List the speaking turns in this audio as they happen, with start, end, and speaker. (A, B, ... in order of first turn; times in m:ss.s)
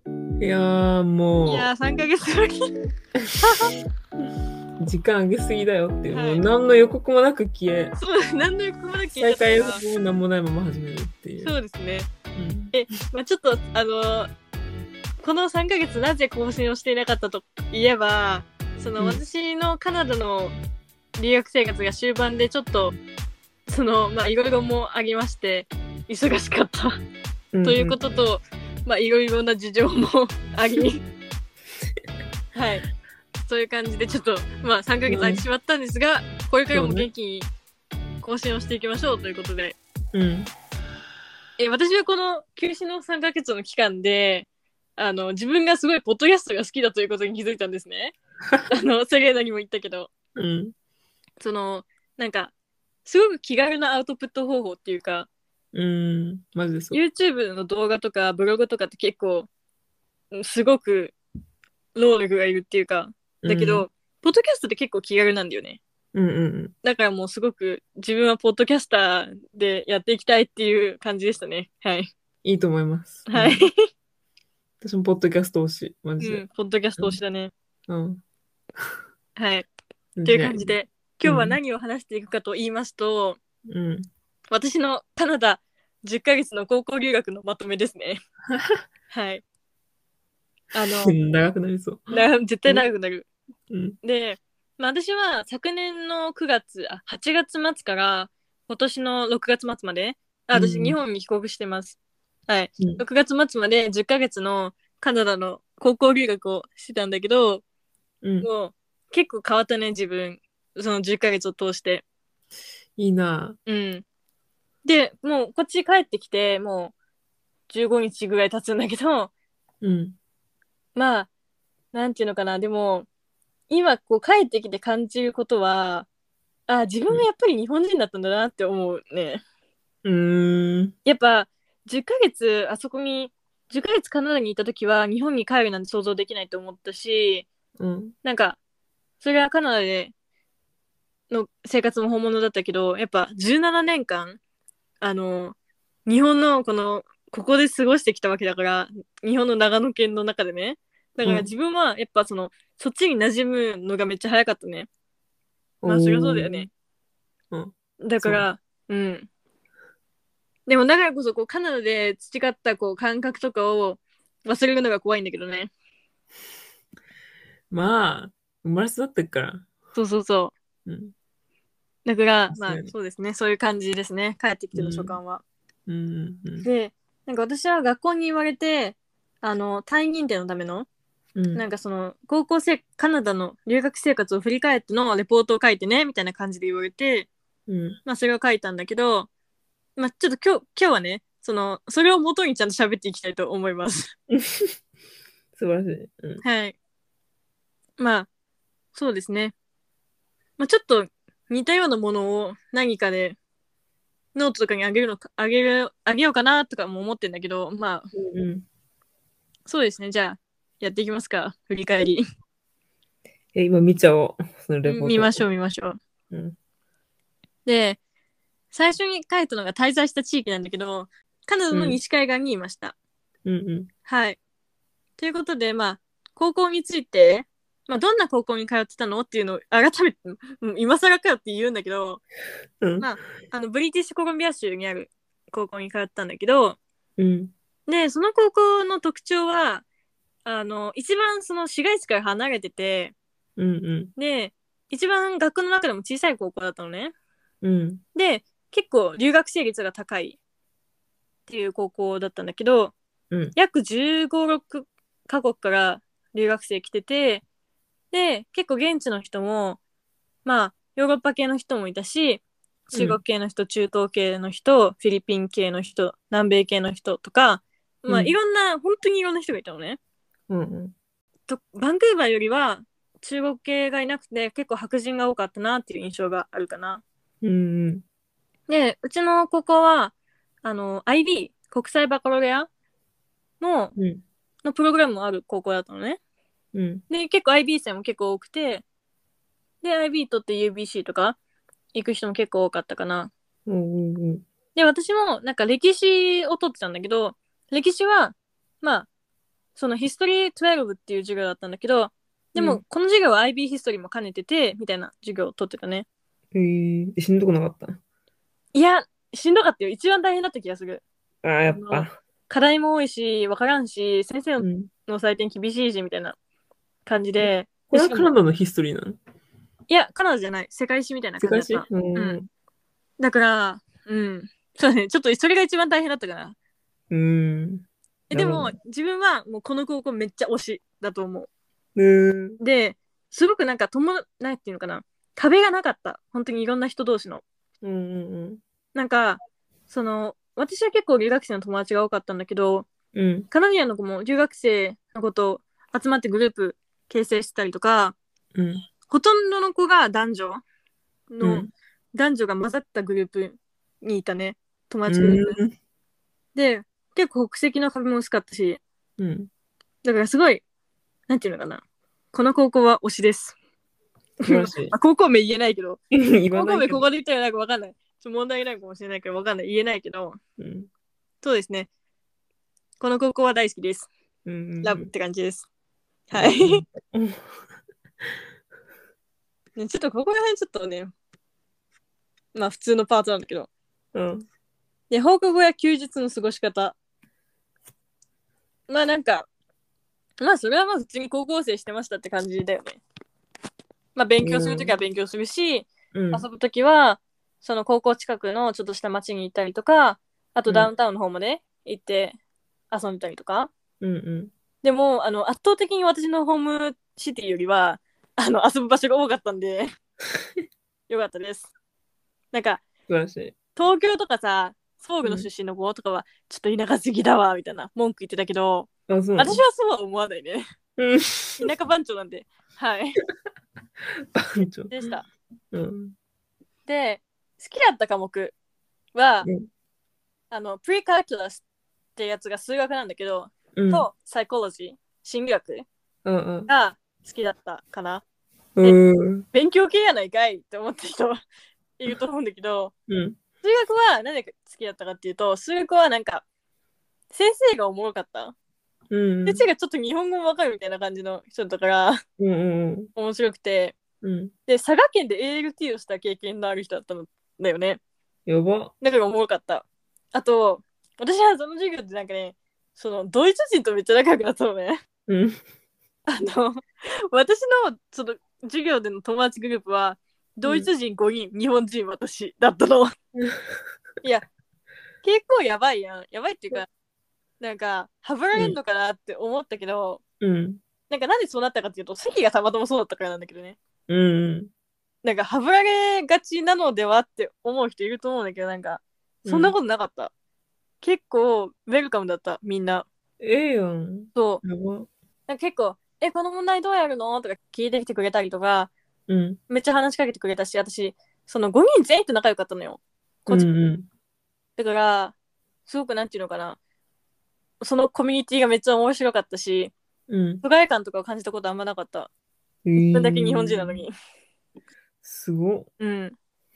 0:00.4-0:01.7 A
0:01.5-0:02.6 B
0:03.4-0:03.8 B
0:04.8-0:08.0 A
0:06.1-0:06.4 B
0:08.0-0:09.8 B
0:09.2-0:11.5 A
0:11.4-0:12.1 B
0:12.3-0:12.7 A
0:12.7-0:14.3 B
0:15.2-0:20.6 B
0:21.2-0:23.0 B
0:23.7-0:27.0 B
0:27.5-0:28.0 A
0:27.6-0:31.0 B
0:32.5-0:32.9 B
0:33.5-0:37.5 B
0:35.1-0:35.4 A
0:36.7-0:37.1 A
0:38.2-0:39.8 B
0:40.1-0:40.5 A
0:41.6-0:48.2 B
0:48.7-0:50.1 B
0:50.4-0:50.7 A
0:51.4-0:52.5 B
0:53.0-0:55.3 B
0:55.7-0:57.0 A
0:56.9-0:59.5 B
1:00.3-1:01.2 B
1:02.0-1:05.8 B
1:03.4-1:03.9 A
1:06.1-1:06.7 A
1:06.8-1:12.1 B
1:12.4-1:13.7 A
1:13.3-1:13.8 B
1:14.8-1:16.4 A
1:16.2-1:17.5 B
1:17.9-1:18.2 A
1:19.4-1:19.7 B
1:20.2-1:21.6 A
1:20.2-1:23.4 B
1:23.7-1:24.1 A
1:24.5-1:28.2 B
1:28.5-1:28.8 A
1:29.1-1:29.4 B
1:30.7-1:31.2 B
1:31.0-1:32.9 A
1:32.1-1:33.3 B
1:33.7-1:34.0 A
1:34.0-1:42.0 B
1:40.5-1:41.0 A
1:42.5-1:47.6 B
1:48.2-1:48.5 A
1:48.4-1:52.0 B
1:53.0-1:53.6 A
1:53.7-1:54.0 B
1:54.8-1:56.9 B
1:57.7-1:59.3 B
1:59.8-2:00.2 A
2:01.0-2:01.3 B
2:01.9-2:03.1 B
2:03.7-2:06.1 B
2:06.7-2:09.4 B
2:10.0-2:10.9 A
2:11.0-2:17.5 B
2:17.8-2:18.2 A
2:18.2-2:18.6 B
2:19.2-2:20.1 B
2:21.3-2:24.4 B
2:25.0-2:34.9 B
2:31.2-2:31.5 A
2:35.8-2:36.7 A
2:35.8-2:36.7 B
2:37.5-2:38.5 A
2:38.0-2:39.3 B
2:40.7-2:45.7 B
2:47.7-2:49.7 A
2:50.0-2:50.6 B
2:50.9-2:51.1 A
2:52.1-2:55.4 B
2:52.5-2:52.9 A
2:54.8-2:55.2 A
2:55.9-2:56.7 A
2:56.6-3:00.9 B
3:01.4-3:01.6 A
3:01.6-3:07.3 B
3:07.7-3:08.0 A
3:08.0-3:09.3 B
3:10.0-3:14.1 B
3:14.3-3:14.7 A
3:15.6-3:16.4 A
3:16.4-3:16.8 B
3:18.0-3:18.3 B
3:19.0-3:19.5 B
3:20.6-3:23.4 B
3:24.4-3:28.1 B
3:28.1-3:28.6 A
3:29.7-3:32.2 B
3:33.6-3:35.4 A
3:34.8-3:36.0 B
3:36.3-3:36.6 A
3:37.7-3:38.0 B
3:38.7-3:43.0 B
3:41.7-3:42.0 A
3:43.4-3:43.9 A
3:44.1-3:44.4 B
3:45.2-3:52.2 B
3:52.8-3:53.1 A
3:53.0-3:56.8 B
3:57.2-3:57.5 A
3:57.9-3:59.8 B
4:00.4-4:03.2 B
4:03.6-4:04.1 A
4:04.2-4:07.1 B
4:07.6-4:08.0 A
4:08.2-4:10.4 B
4:11.5-4:12.9 B
4:13.6-4:17.4 B
4:18.1-4:19.8 B
4:20.4-4:30.0 B
4:22.9-4:23.2 A
4:28.1-4:28.4 A
4:30.5-4:30.9 A
4:31.5-4:37.0 B
4:37.4-4:38.0 A
4:38.7-4:42.7 B
4:43.6-4:44.0 B
4:44.0-4:44.2 A
4:44.6-4:46.2 B
4:46.7-4:47.0 A
4:47.1-4:48.8 B
4:49.8-4:51.4 B
4:51.9-4:53.3 B
4:53.7-4:54.5 A
4:54.8-4:59.1 B
4:59.8-5:06.1 B
5:02.6-5:02.8 A
5:06.5-5:08.0 A
5:08.7-5:11.0 B
5:11.4-5:12.2 A
5:11.7-5:16.4 B
5:14.6-5:14.9 A
5:17.1-5:18.3 B
5:17.4-5:19.2 A
5:19.9-5:22.4 B
5:21.4-5:22.5 A
5:23.2-5:26.6 B
5:27.1-5:28.7 A
5:28.3-5:31.5 B
5:32.0-5:32.6 A
5:32.6-5:37.4 B
5:37.8-5:38.6 A
5:39.0-5:42.9 B
5:43.1-5:43.5 A
5:43.5-5:48.2 B
5:48.6-5:48.8 A
5:49.1-5:50.6 B
5:51.3-5:55.6 B
5:51.4-5:51.7 A
5:55.1-5:55.7 A
5:56.6-5:58.8 B
5:59.2-5:59.5 A
6:00.0-6:00.6 B
6:01.3-6:01.8 B
6:02.3-6:03.6 B
6:04.4-6:10.4 B
6:04.5-6:04.9 A
6:06.1-6:07.0 A
6:10.6-6:10.9 A
6:11.4-6:11.9 B
6:13.0-6:14.1 B
6:14.5-6:15.1 A
6:14.8-6:15.7 B
6:16.3-6:16.8 B
6:16.4-6:17.4 A
6:19.8-6:21.1 B
6:22.6-6:23.7 B
6:24.1-6:24.5 A
6:25.1-6:27.0 B
6:28.9-6:29.5 B
6:30.4-6:33.0 B
6:34.2-6:42.4 B
6:34.4-6:34.9 A
6:36.1-6:36.4 A
6:42.9-6:43.7 B
6:44.0-6:44.5 A
6:44.8-6:49.9 B
6:51.1-6:51.7 B
6:52.5-6:52.8 B
6:53.1-6:53.6 A
6:53.8-7:00.6 B
6:59.1-6:59.6 A
7:01.0-7:01.7 A
7:01.6-7:03.2 B
7:04.3-7:05.0 A
7:04.9-7:05.3 B
7:05.7-7:06.2 A
7:06.9-7:08.6 B
7:09.2-7:09.5 B
7:09.4-7:09.7 A
7:10.5-7:11.6 B
7:12.2-7:15.9 B
7:13.8-7:14.1 A
7:16.2-7:16.7 A
7:16.7-7:18.2 B
7:18.8-7:19.5 A
7:19.5-7:21.4 B
7:22.0-7:22.9 B
7:23.1-7:23.4 A
7:23.6-7:26.4 B
7:27.3-7:28.5 B
7:29.1-7:29.7 A
7:29.5-7:32.2 B
7:32.4-7:33.1 A
7:33.2-7:34.0 B
7:34.2-7:34.5 A
7:34.7-7:38.0 B
7:38.5-7:38.9 A
7:39.0-7:45.0 B
7:45.3-7:45.6 A
7:46.3-7:53.1 B
7:50.6-7:50.9 A
7:53.4-7:53.7 A
7:55.2-7:56.9 B
7:57.6-8:00.2 B
8:00.4-8:00.8 A
8:01.1-8:03.8 B
8:04.1-8:04.7 A
8:05.2-8:10.3 B
8:09.4-8:09.8 A
8:11.0-8:13.1 B
8:13.4-8:15.1 A
8:14.4-8:14.6 B
8:15.5-8:18.9 B
8:19.3-8:19.6 A
8:19.7-8:23.7 B
8:23.5-8:24.1 A
8:24.8-8:25.3 B
8:25.9-8:26.8 B
8:27.8-8:29.9 B
8:30.3-8:30.6 A
8:30.6-8:32.3 B
8:32.9-8:34.0 A
8:33.1-8:34.1 B
8:35.2-8:35.9 A
8:36.0-8:36.4 B